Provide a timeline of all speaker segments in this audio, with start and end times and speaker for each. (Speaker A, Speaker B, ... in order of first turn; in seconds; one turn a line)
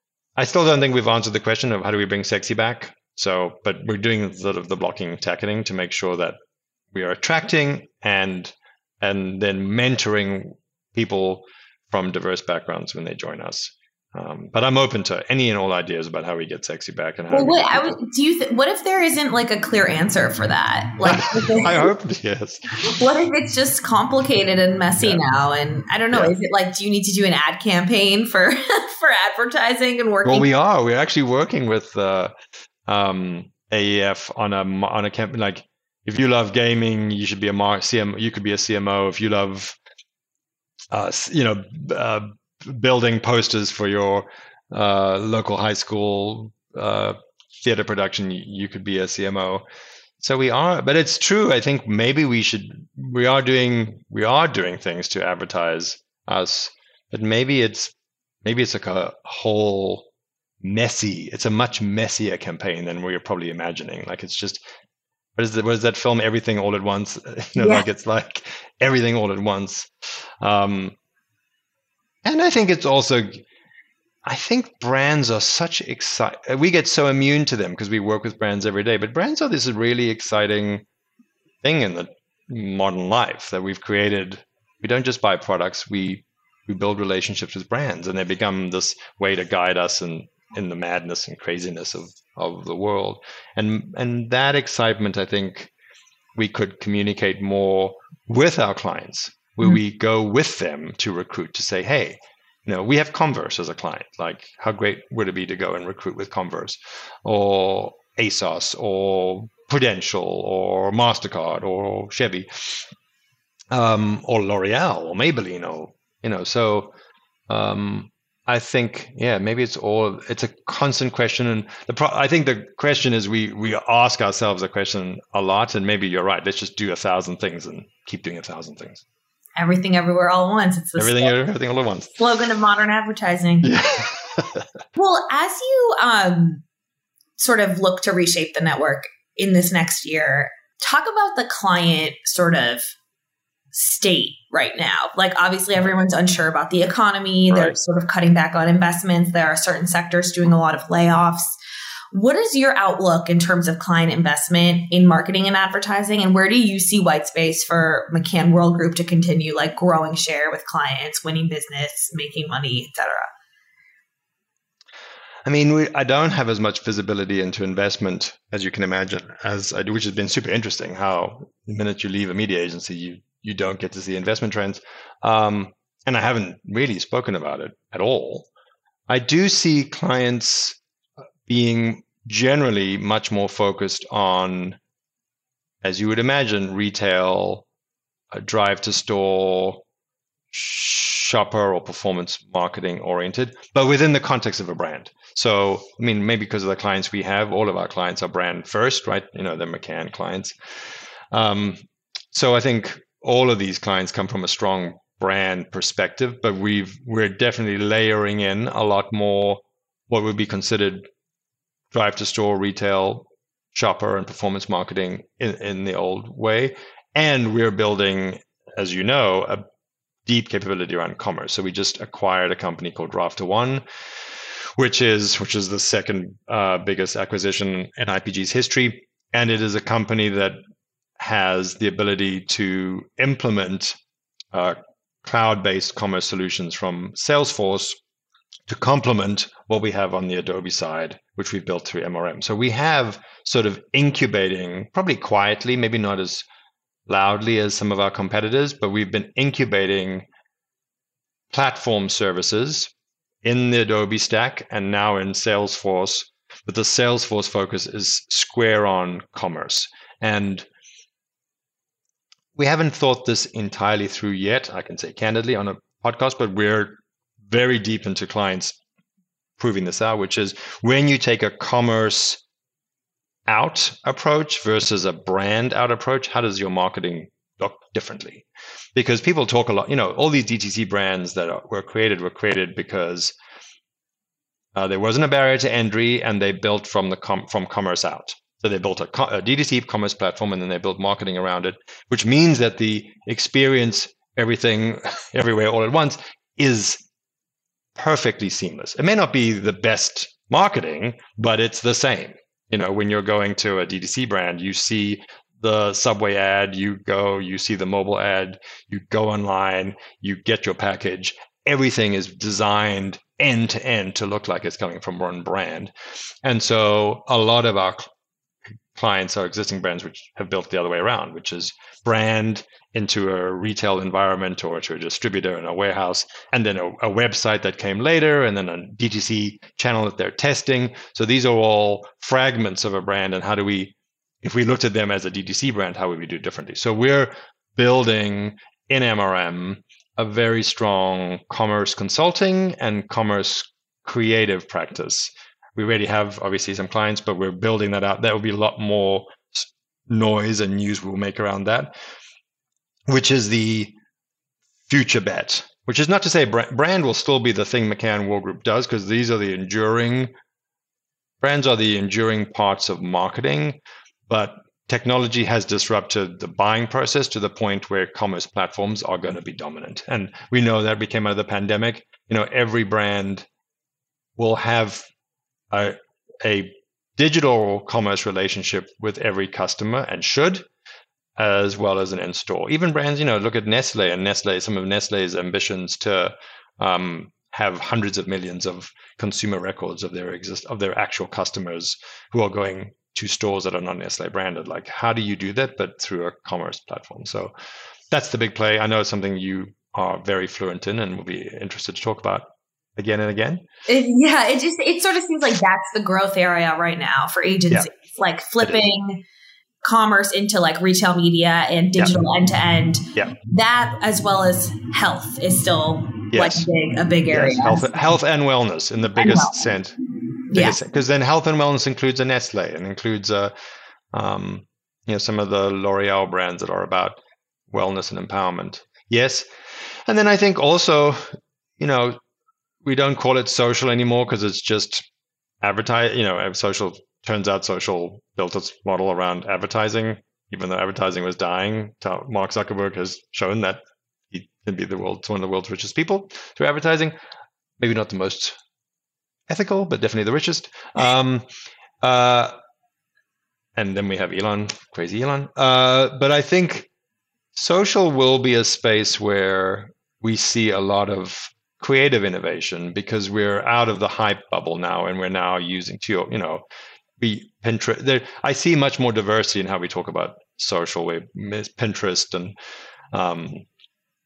Speaker A: 0.3-6.3
Speaker A: 6.9-18.0
Speaker B: 17.3-21.9
Speaker A: 21.0-23.0
Speaker B: 22.8-30.5
Speaker A: 30.2-32.3
Speaker A: 32.9-39.8
Speaker A: 40.9-49.6
Speaker A: 50.2-57.9
Speaker A: 58.4-60.1
Speaker A: 60.6-64.6
Speaker A: 65.3-71.0
Speaker B: 67.6-67.8
Speaker A: 72.2-73.4
Speaker A: 74.2-80.8
Speaker A: 81.6-95.7
Speaker A: 96.3-112.9
Speaker A: 113.7-116.9
Speaker A: 117.5-129.0
Speaker B: 129.6-131.3
Speaker A: 131.0-132.2
Speaker B: 132.2-133.7
Speaker A: 133.6-134.7
Speaker B: 134.9-136.6
Speaker B: 137.4-142.9
Speaker B: 143.7-151.5
Speaker A: 147.5-147.7
Speaker B: 152.1-163.3
Speaker A: 165.4-178.5
Speaker A: 179.1-180.8
Speaker A: 181.4-184.8
Speaker A: 185.8-187.7
Speaker A: 188.3-189.8
Speaker A: 190.5-200.6
Speaker A: 201.3-201.8
Speaker A: 202.3-211.1
Speaker A: 211.9-219.6
Speaker A: 220.2-223.8
Speaker A: 224.8-230.6
Speaker A: 231.2-234.0
Speaker A: 234.5-238.0
Speaker A: 238.7-246.5
Speaker A: 247.1-250.2
Speaker A: 251.5-252.9
Speaker A: 253.4-260.7
Speaker A: 262.6-268.8
Speaker A: 269.6-272.4
Speaker A: 273.5-283.3
Speaker A: 284.7-297.0
Speaker A: 297.9-315.9
Speaker A: 316.4-318.1
Speaker A: 318.9-351.9
Speaker A: 353.1-353.9
Speaker A: 354.9-360.3
Speaker A: 361.4-373.4
Speaker A: 374.4-375.1
Speaker A: 375.7-380.6
Speaker A: 381.4-397.5
Speaker A: 398.1-403.6
Speaker B: 403.9-409.2
Speaker B: 409.8-417.9
Speaker A: 416.3-416.7
Speaker A: 417.3-420.0
Speaker B: 419.1-419.7
Speaker B: 420.5-420.8
Speaker A: 420.5-423.5
Speaker A: 424.1-427.2
Speaker A: 427.7-429.4
Speaker A: 430.1-431.2
Speaker A: 431.8-432.2
Speaker A: 432.8-435.1
Speaker A: 435.6-447.1
Speaker A: 447.8-448.6
Speaker A: 449.5-451.4
Speaker A: 452.0-452.5
Speaker A: 453.8-456.9
Speaker A: 457.5-466.6
Speaker A: 467.2-472.5
Speaker A: 473.1-473.6